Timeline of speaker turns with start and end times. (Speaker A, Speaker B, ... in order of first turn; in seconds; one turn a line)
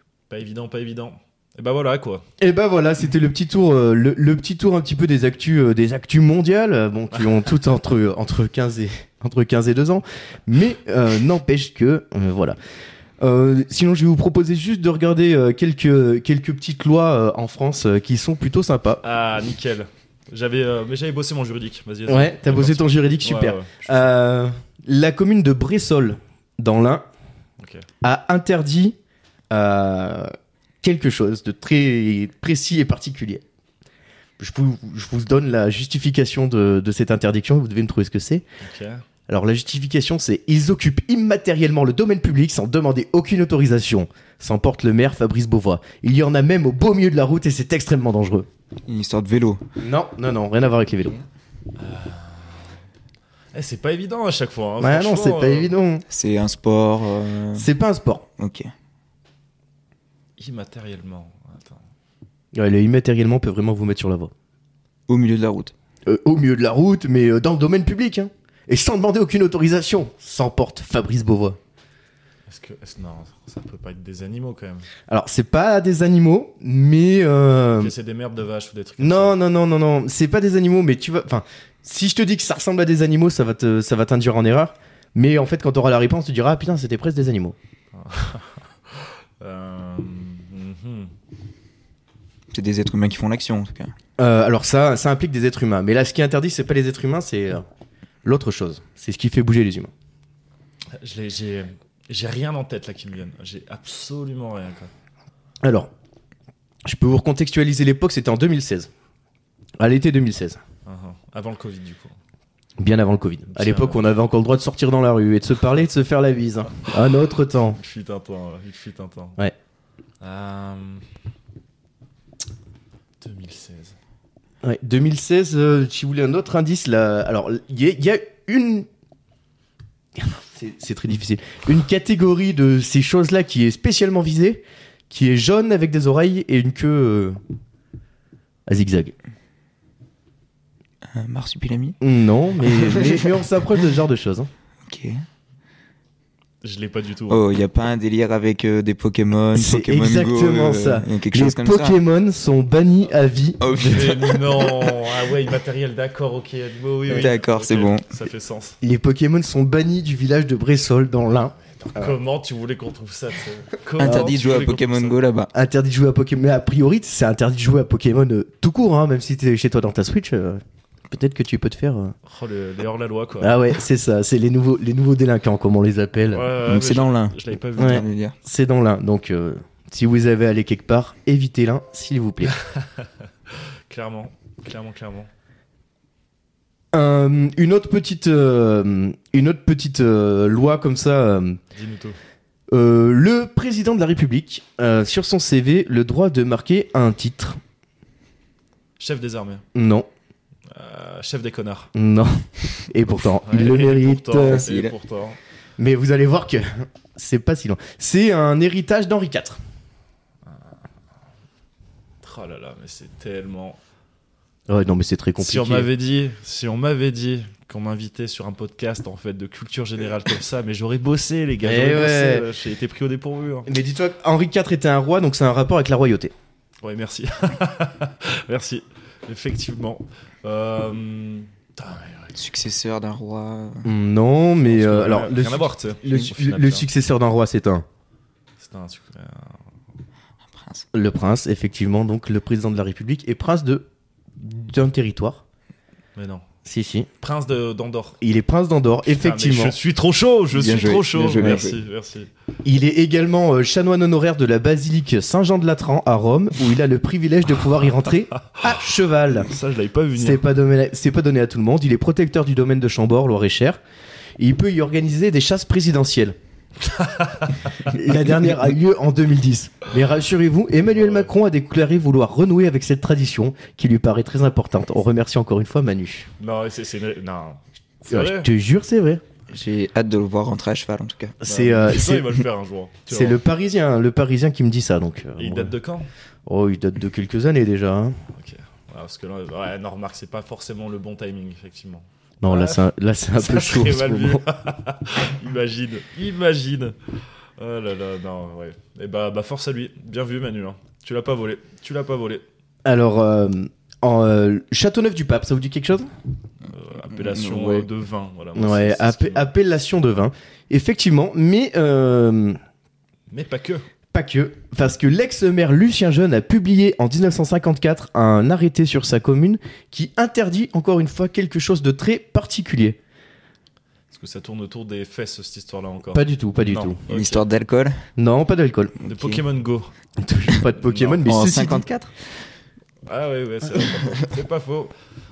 Speaker A: 0.3-2.2
Speaker B: 2.4-12.6
Speaker B: 13.2-19.0
Speaker A: 19.0-24.1
Speaker B: 22.1-27.0
Speaker A: 27.6-27.9
Speaker B: 28.0-28.9
Speaker B: 29.5-33.4
Speaker B: 34.4-38.4
Speaker A: 38.6-39.0
Speaker B: 39.3-48.5
Speaker C: 48.9-49.6
Speaker B: 49.8-51.2
Speaker A: 51.8-52.7
Speaker A: 53.5-55.7
Speaker B: 54.8-56.0
Speaker C: 56.1-57.7
Speaker B: 57.5-58.3
Speaker C: 58.4-58.7
Speaker A: 60.4-61.8
Speaker B: 62.5-64.3
Speaker C: 65.1-65.7
Speaker B: 66.1-71.6
Speaker A: 72.5-74.9
Speaker B: 75.1-77.9
Speaker A: 77.8-79.3
Speaker B: 79.0-87.5
Speaker A: 87.9-91.1
Speaker C: 92.5-93.9
Speaker B: 94.2-97.6
Speaker B: 98.2-99.9
Speaker A: 100.9-104.9
Speaker B: 105.6-105.9
Speaker B: 106.8-108.9
Speaker B: 109.8-110.6
Speaker A: 110.8-112.1
Speaker B: 112.8-117.8
Speaker A: 113.5-114.0
Speaker A: 117.8-119.4
Speaker A: 120.2-121.0
Speaker A: 123.2-123.9
Speaker B: 124.6-128.9
Speaker B: 130.2-137.4
Speaker B: 138.7-139.1
Speaker C: 141.1-142.0
Speaker B: 142.0-144.5
Speaker C: 142.6-143.3
Speaker C: 144.8-145.2
Speaker A: 146.6-147.4
Speaker C: 147.3-152.0
Speaker B: 149.5-154.2
Speaker C: 153.6-155.0
Speaker A: 153.7-158.8
Speaker C: 157.1-158.1
Speaker B: 158.8-162.1
Speaker A: 161.7-165.2
Speaker C: 164.0-165.5
Speaker B: 164.0-164.3
Speaker B: 165.5-172.1
Speaker A: 172.2-173.6
Speaker B: 173.4-176.5
Speaker A: 176.3-178.1
Speaker C: 176.6-178.3
Speaker B: 177.8-182.5
Speaker A: 183.9-185.3
Speaker B: 186.9-191.6
Speaker A: 191.7-192.2
Speaker B: 192.7-197.6
Speaker A: 199.0-199.6
Speaker B: 199.7-200.1
Speaker A: 200.7-201.9
Speaker B: 201.9-204.6
Speaker A: 203.2-205.4
Speaker C: 204.4-204.9
Speaker B: 205.8-209.6
Speaker A: 212.2-213.8
Speaker B: 214.7-215.9
Speaker A: 215.4-223.7
Speaker B: 221.6-222.4
Speaker B: 223.7-226.3
Speaker A: 226.8-232.3
Speaker C: 232.3-233.8
Speaker B: 233.8-237.8
Speaker A: 234.6-236.9
Speaker A: 238.6-239.6
Speaker C: 240.5-240.8
Speaker B: 240.9-243.8
Speaker B: 244.4-245.4
Speaker A: 246.2-246.4
Speaker B: 246.6-247.1
Speaker A: 247.2-248.2
Speaker B: 248.2-249.8
Speaker A: 249.1-252.3
Speaker C: 250.5-251.8
Speaker B: 252.6-259.5
Speaker A: 258.6-260.4
Speaker B: 260.1-263.8
Speaker B: 264.4-266.4
Speaker A: 266.9-267.5
Speaker B: 267.8-276.3
Speaker A: 270.9-271.3
Speaker A: 276.4-278.5
Speaker B: 278.1-279.2
Speaker C: 279.5-281.4
Speaker B: 281.4-282.3
Speaker A: 281.4-283.4
Speaker B: 283.1-285.7
Speaker A: 285.4-286.1
Speaker B: 286.4-288.2
Speaker A: 288.3-292.8
Speaker B: 292.4-294.4
Speaker A: 293.4-302.4
Speaker B: 302.8-306.1
Speaker A: 306.7-309.5
Speaker C: 307.1-307.9
Speaker B: 308.6-312.6
Speaker A: 313.3-313.9
Speaker B: 314.1-323.0
Speaker A: 324.1-327.4
Speaker B: 326.1-327.0
Speaker C: 327.1-328.0
Speaker B: 328.2-328.9
Speaker C: 329.0-329.4
Speaker A: 329.0-329.9
Speaker B: 330.2-331.9
Speaker A: 330.8-331.3
Speaker C: 331.2-332.1
Speaker A: 333.1-334.9